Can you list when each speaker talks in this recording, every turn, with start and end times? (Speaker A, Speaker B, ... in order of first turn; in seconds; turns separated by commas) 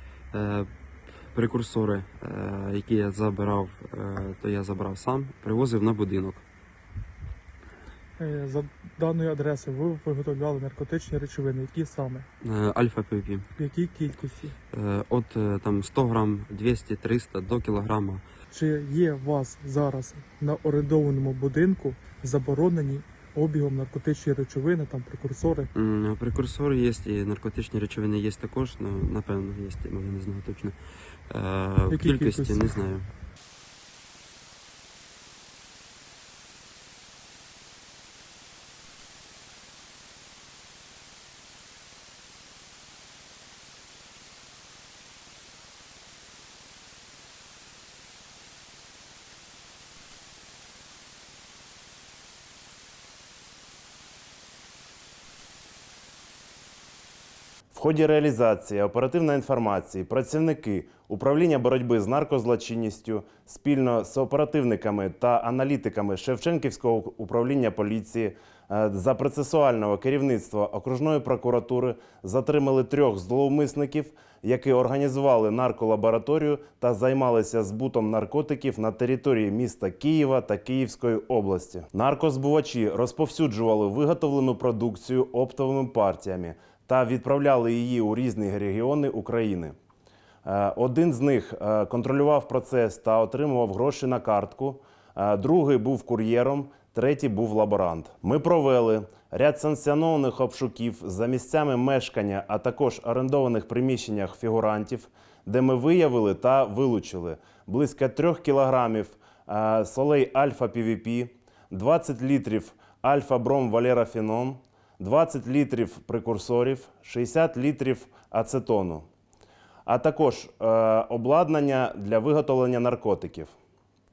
Speaker A: 0.3-0.7, Speaker A: 1.2-6.4, Speaker B: 8.2-12.2, Speaker A: 12.4-13.4, Speaker B: 13.6-14.5, Speaker A: 14.7-18.2, Speaker B: 18.5-25.7, Speaker A: 25.7-30.8, Speaker A: 31.3-33.1, Speaker B: 31.9-32.8, Speaker C: 57.7-89.7, Speaker C: 90.4-119.1, Speaker C: 119.8-123.5